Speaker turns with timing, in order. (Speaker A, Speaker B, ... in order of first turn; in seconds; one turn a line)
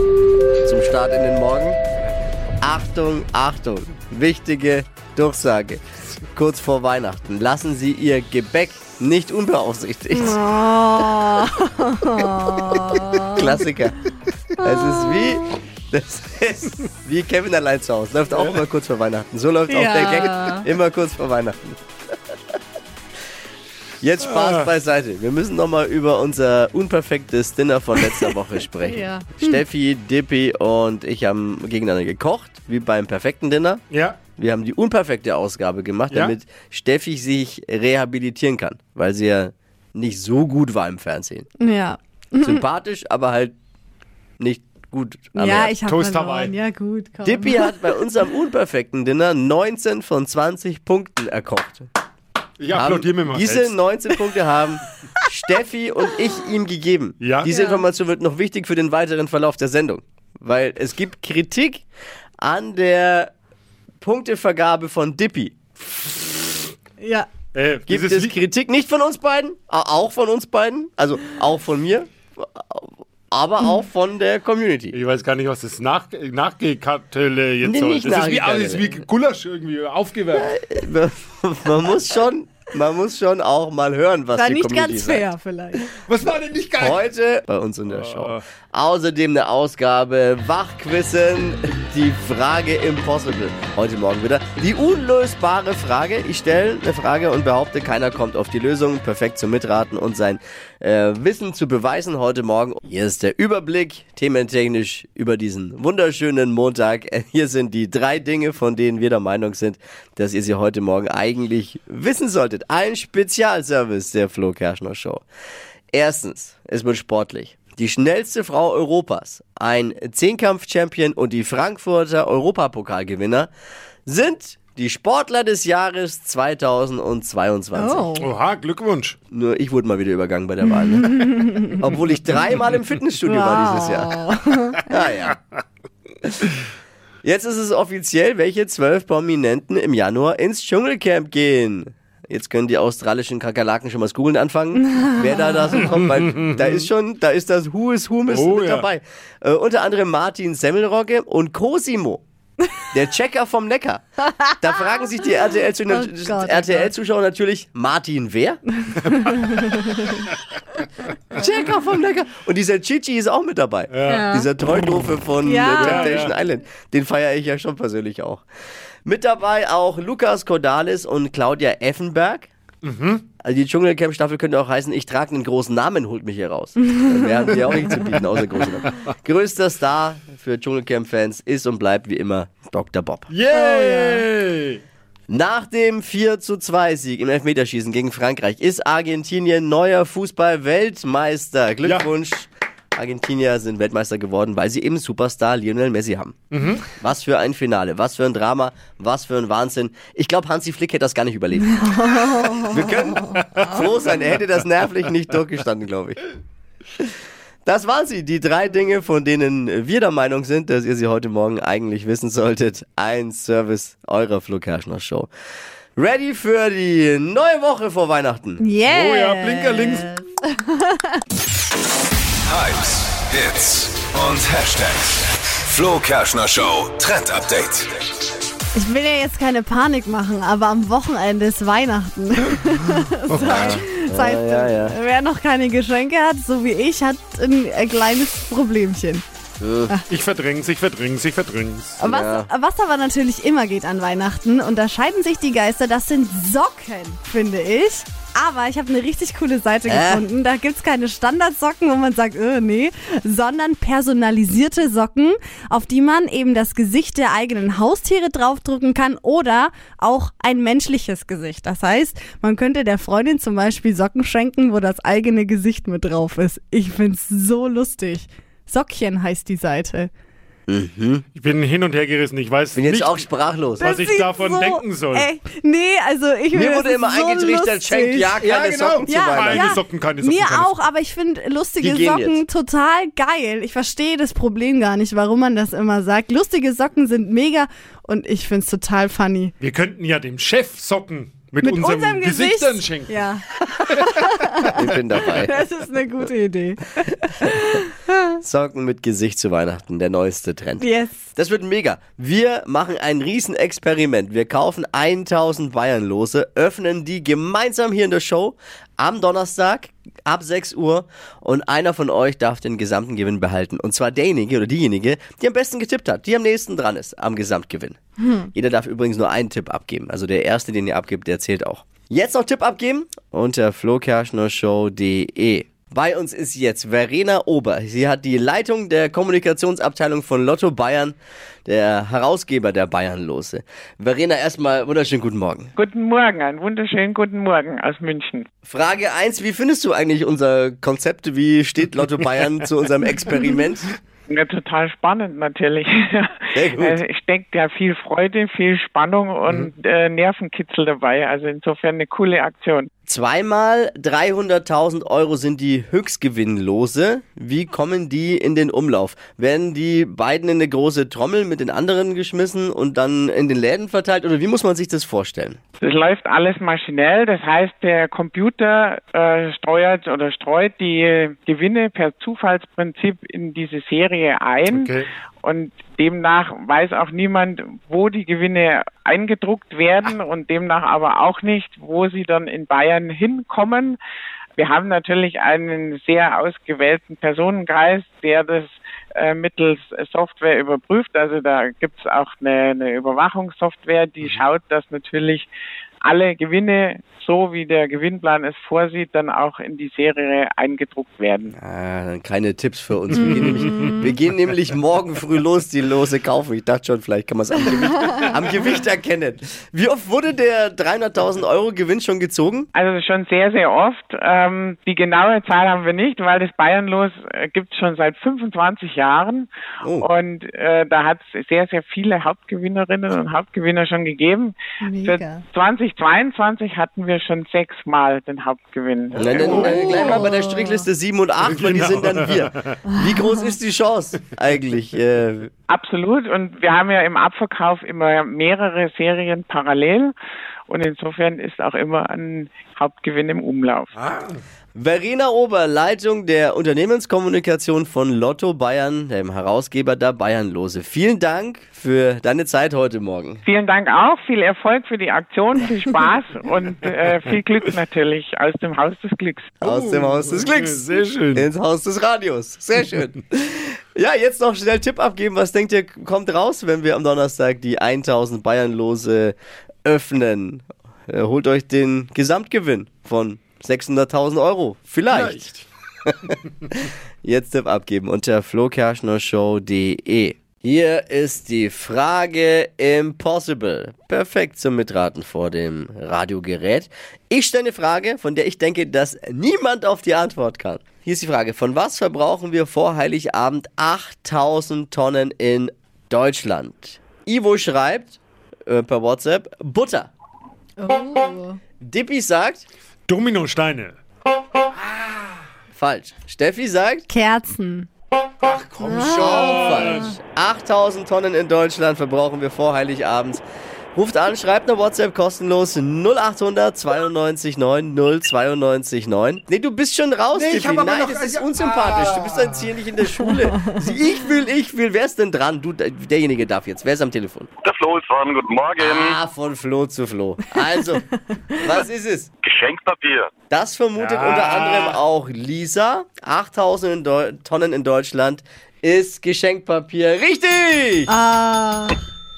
Speaker A: 0.6-1.8
Speaker A: 2.6-10.4
Speaker B: 10.1-13.4
Speaker A: 13.2-14.0
Speaker B: 14.6-15.2
Speaker A: 14.6-21.8
Speaker B: 19.7-20.7
Speaker A: 24.0-41.5
Speaker C: 24.2-24.7
Speaker B: 28.8-29.6
Speaker C: 33.9-34.2
Speaker B: 41.6-42.6
Speaker A: 42.4-43.5
Speaker A: 44.4-45.8
Speaker B: 45.3-48.0
Speaker C: 45.8-46.5
Speaker A: 47.2-51.9
Speaker C: 52.6-53.8
Speaker A: 52.7-61.9
Speaker C: 57.2-57.5
Speaker B: 57.5-57.8
Speaker A: 62.4-63.3
Speaker A: 64.0-66.3
Speaker B: 67.0-67.3
Speaker C: 67.5-68.3
Speaker A: 67.8-75.0
Speaker C: 74.9-80.5
Speaker A: 77.6-79.0
Speaker A: 80.3-85.2
Speaker B: 84.3-85.9
Speaker C: 86.1-87.0
Speaker A: 86.8-115.2
Speaker C: 87.9-88.4
Speaker A: 115.9-123.5
Speaker A: 124.1-128.1
Speaker B: 127.8-128.3
Speaker C: 128.2-129.2
Speaker A: 129.3-134.1
Speaker B: 133.2-134.8
Speaker A: 134.9-135.4
Speaker A: 137.2-152.2
Speaker B: 145.0-145.6
Speaker C: 148.3-148.8
Speaker A: 152.9-154.0
Speaker B: 154.3-154.7
Speaker A: 154.6-158.6
Speaker B: 155.9-156.9
Speaker B: 159.1-160.2
Speaker C: 159.1-159.3
Speaker A: 161.3-168.4
Speaker C: 163.9-164.2
Speaker B: 164.1-164.5
Speaker B: 165.4-166.3
Speaker C: 165.8-166.3
Speaker A: 169.0-172.5
Speaker C: 172.8-173.2
Speaker A: 173.4-183.3
Speaker C: 183.3-184.8
Speaker B: 183.5-184.2
Speaker A: 185.3-196.3
Speaker C: 191.8-192.1
Speaker C: 196.5-196.8
Speaker A: 197.0-206.3
Speaker B: 201.8-203.2
Speaker A: 207.7-215.3
Speaker A: 216.0-218.6
Speaker B: 218.6-221.2
Speaker C: 218.9-220.1
Speaker D: 222.4-228.0
Speaker B: 228.7-239.2
Speaker C: 233.3-233.8
Speaker A: 233.3-234.9
Speaker A: 239.6-239.9
Speaker C: 240.1-242.0
Speaker B: 242.0-270.1
Speaker A: 242.0-242.5
Speaker A: 249.8-250.3
Speaker A: 270.7-271.2
Speaker C: 271.4-275.3
Speaker A: 272.8-273.9
Speaker B: 273.8-278.4
Speaker A: 276.5-279.7
Speaker C: 278.4-280.7
Speaker B: 279.1-289.5
Speaker A: 281.8-282.4
Speaker C: 289.6-293.3
Speaker B: 291.6-298.2
Speaker A: 294.8-295.5
Speaker A: 298.4-318.0
Speaker B: 300.8-301.3
Speaker B: 318.2-318.5
Speaker A: 318.5-335.7
Speaker E: 335.8-338.5
Speaker A: 338.6-344.0
Speaker E: 344.3-352.9
Speaker A: 346.6-347.0
Speaker A: 353.1-365.6
Speaker E: 365.8-384.0
Speaker C: 374.7-375.1
Speaker E: 384.6-395.5
Speaker E: 396.0-401.6
Speaker A: 401.6-412.7
Speaker E: 412.7-430.1
Speaker A: 419.8-420.1
Speaker B: 424.8-425.4
Speaker A: 429.2-435.5
Speaker C: 429.2-430.3
Speaker B: 429.4-430.9
Speaker C: 431.4-432.8
Speaker E: 435.7-440.1
Speaker E: 440.7-443.9
Speaker A: 444.8-453.4
Speaker E: 453.4-459.6
Speaker A: 459.6-475.5
Speaker C: 459.6-461.4
Speaker C: 475.1-475.6
Speaker A: 476.8-500.1
Speaker B: 500.8-501.6
Speaker A: 501.8-502.7
Speaker C: 503.1-504.0
Speaker A: 505.7-507.1
Speaker B: 507.1-507.9
Speaker C: 508.4-510.1
Speaker B: 508.8-510.1
Speaker A: 509.0-513.4
Speaker A: 513.9-527.5
Speaker C: 520.3-522.7
Speaker B: 523.5-523.8
Speaker F: 527.6-529.2
Speaker A: 528.8-531.0
Speaker A: 531.6-532.3
Speaker F: 532.4-533.3
Speaker A: 533.5-541.1
Speaker C: 534.0-535.0
Speaker B: 541.1-542.0